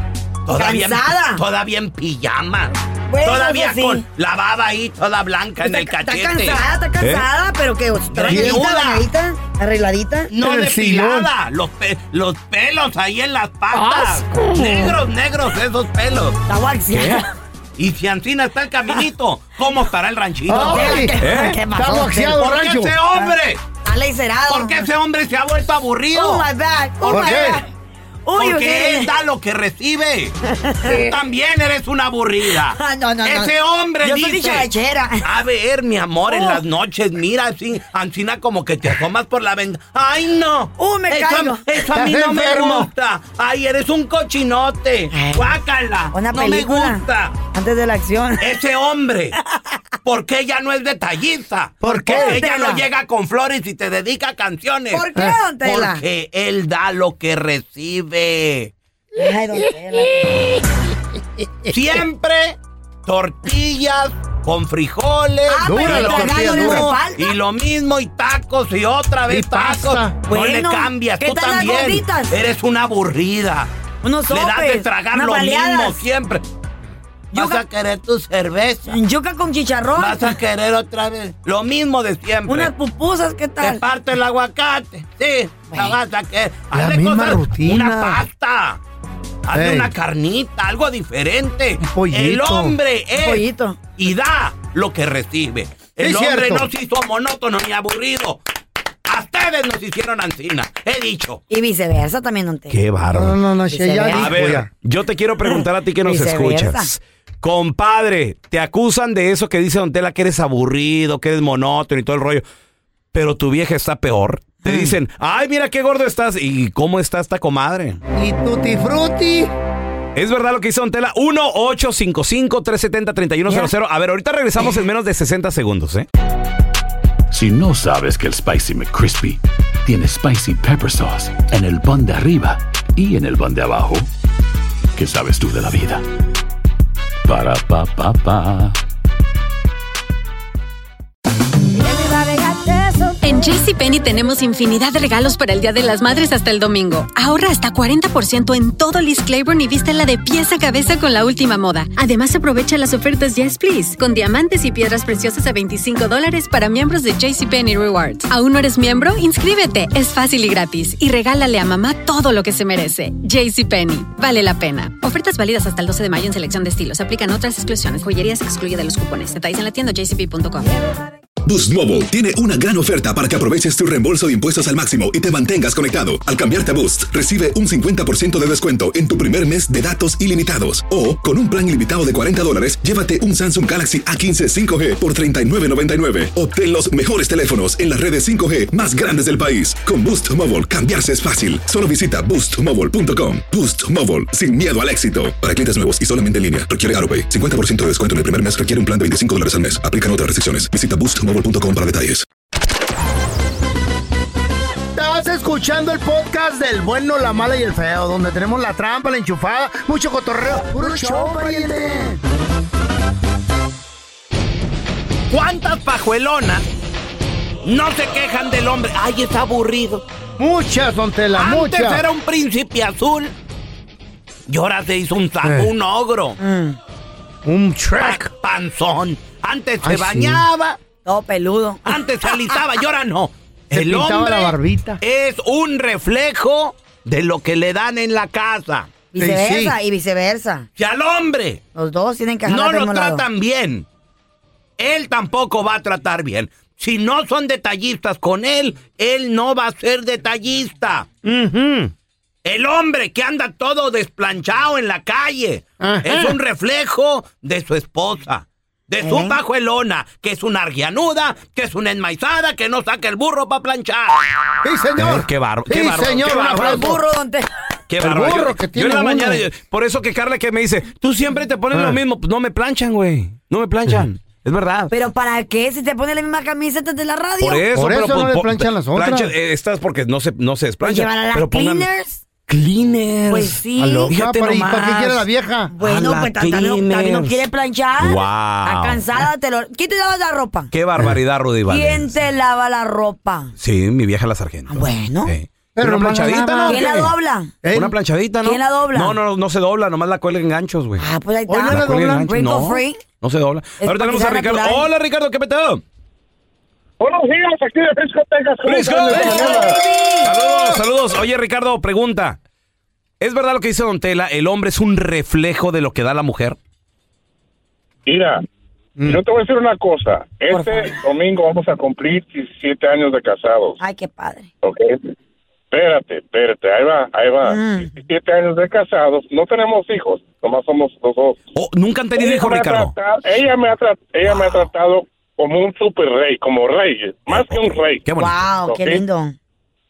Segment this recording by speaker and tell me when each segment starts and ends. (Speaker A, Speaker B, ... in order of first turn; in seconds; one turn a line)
Speaker A: 0.5-6.7
Speaker B: 0.5-1.4
Speaker B: 3.1-4.0
Speaker B: 5.6-10.3
Speaker C: 7.0-7.3
Speaker A: 8.1-9.1
Speaker D: 8.3-8.7
Speaker A: 10.3-16.4
Speaker D: 10.4-11.3
Speaker D: 13.7-14.9
Speaker B: 16.5-17.3
Speaker C: 16.9-17.2
Speaker A: 17.8-21.1
Speaker D: 20.5-23.0
Speaker B: 20.5-22.4
Speaker C: 21.2-21.6
Speaker A: 22.2-23.6
Speaker B: 23.1-24.9
Speaker A: 24.5-26.5
Speaker B: 26.1-27.7
Speaker D: 27.1-27.6
Speaker B: 28.2-29.1
Speaker A: 28.3-30.3
Speaker B: 30.5-31.1
Speaker A: 30.9-34.7
Speaker B: 32.5-35.2
Speaker A: 35.2-47.4
Speaker B: 36.3-36.6
Speaker B: 40.8-41.7
Speaker D: 41.9-42.9
Speaker B: 45.1-45.5
Speaker B: 46.1-48.5
Speaker A: 48.4-49.4
Speaker A: 50.0-55.0
Speaker D: 51.8-52.4
Speaker B: 52.0-52.8
Speaker B: 54.9-56.0
Speaker A: 55.6-58.7
Speaker B: 59.2-60.5
Speaker D: 59.6-60.7
Speaker A: 61.7-73.7
Speaker B: 65.5-67.3
Speaker D: 65.6-67.0
Speaker D: 69.3-70.2
Speaker B: 70.3-72.3
Speaker B: 74.0-76.0
Speaker A: 74.3-76.4
Speaker A: 77.3-79.0
Speaker B: 77.3-77.6
Speaker B: 78.9-80.4
Speaker A: 80.0-82.7
Speaker B: 82.5-83.8
Speaker A: 83.6-88.8
Speaker D: 86.7-88.2
Speaker A: 89.5-93.4
Speaker D: 89.5-89.9
Speaker D: 91.8-92.8
Speaker B: 93.1-93.8
Speaker A: 94.0-98.4
Speaker D: 96.0-96.7
Speaker A: 99.1-101.4
Speaker B: 101.5-102.8
Speaker C: 102.7-103.3
Speaker D: 103.1-104.7
Speaker B: 103.7-104.3
Speaker C: 104.1-112.4
Speaker B: 105.5-106.9
Speaker C: 113.1-118.0
Speaker B: 114.6-114.9
Speaker D: 118.1-119.5
Speaker C: 120.1-126.1
Speaker E: 127.3-134.1
Speaker E: 134.9-136.0
Speaker E: 137.2-138.8
Speaker B: 141.8-143.4
Speaker F: 143.2-170.7
Speaker G: 171.4-202.2
Speaker D: 204.9-212.2
Speaker B: 210.8-211.8
Speaker A: 215.3-216.6
Speaker A: 217.6-220.0
Speaker D: 220.4-222.0
Speaker A: 221.3-223.3
Speaker A: 224.5-226.4
Speaker D: 225.4-225.7
Speaker B: 226.4-226.8
Speaker D: 227.4-228.3
Speaker A: 228.0-230.8
Speaker D: 229.8-230.5
Speaker B: 231.0-232.0
Speaker A: 231.8-238.9
Speaker D: 233.7-235.0
Speaker B: 239.1-240.7
Speaker D: 239.2-239.8
Speaker A: 240.8-241.6
Speaker B: 241.7-243.2
Speaker A: 242.4-243.8
Speaker A: 244.8-251.1
Speaker D: 251.2-251.9
Speaker A: 252.4-264.3
Speaker D: 255.8-256.4
Speaker B: 259.0-259.4
Speaker D: 264.6-267.0
Speaker C: 265.0-266.9
Speaker B: 266.4-267.5
Speaker C: 267.9-274.9
Speaker D: 268.0-269.4
Speaker D: 271.7-272.0
Speaker B: 274.9-277.6
Speaker C: 277.4-281.9
Speaker D: 277.7-279.3
Speaker B: 280.8-282.2
Speaker A: 282.5-283.5
Speaker B: 283.3-284.1
Speaker D: 283.8-285.7
Speaker C: 284.1-285.2
Speaker B: 285.7-290.7
Speaker C: 285.8-287.3
Speaker A: 286.4-286.8
Speaker C: 288.0-289.2
Speaker C: 290.7-292.1
Speaker B: 291.7-293.5
Speaker C: 293.6-297.1
Speaker B: 294.7-295.3
Speaker D: 295.8-297.0
Speaker B: 296.7-297.5
Speaker D: 297.6-297.9
Speaker C: 297.7-301.1
Speaker B: 298.4-299.2
Speaker B: 301.0-303.0
Speaker D: 301.5-302.3
Speaker C: 301.7-305.8
Speaker B: 303.8-304.9
Speaker H: 307.0-309.5
Speaker C: 308.6-312.4
Speaker D: 308.8-309.8
Speaker B: 309.1-310.3
Speaker C: 313.2-316.6
Speaker H: 318.1-318.4
Speaker H: 319.0-323.8
Speaker B: 320.5-321.0
Speaker B: 323.8-324.5
Speaker H: 324.6-325.0
Speaker H: 325.7-331.4
Speaker B: 327.4-327.9
Speaker C: 331.5-332.9
Speaker H: 332.1-338.1
Speaker C: 337.3-338.4
Speaker B: 338.2-339.3
Speaker H: 338.6-339.0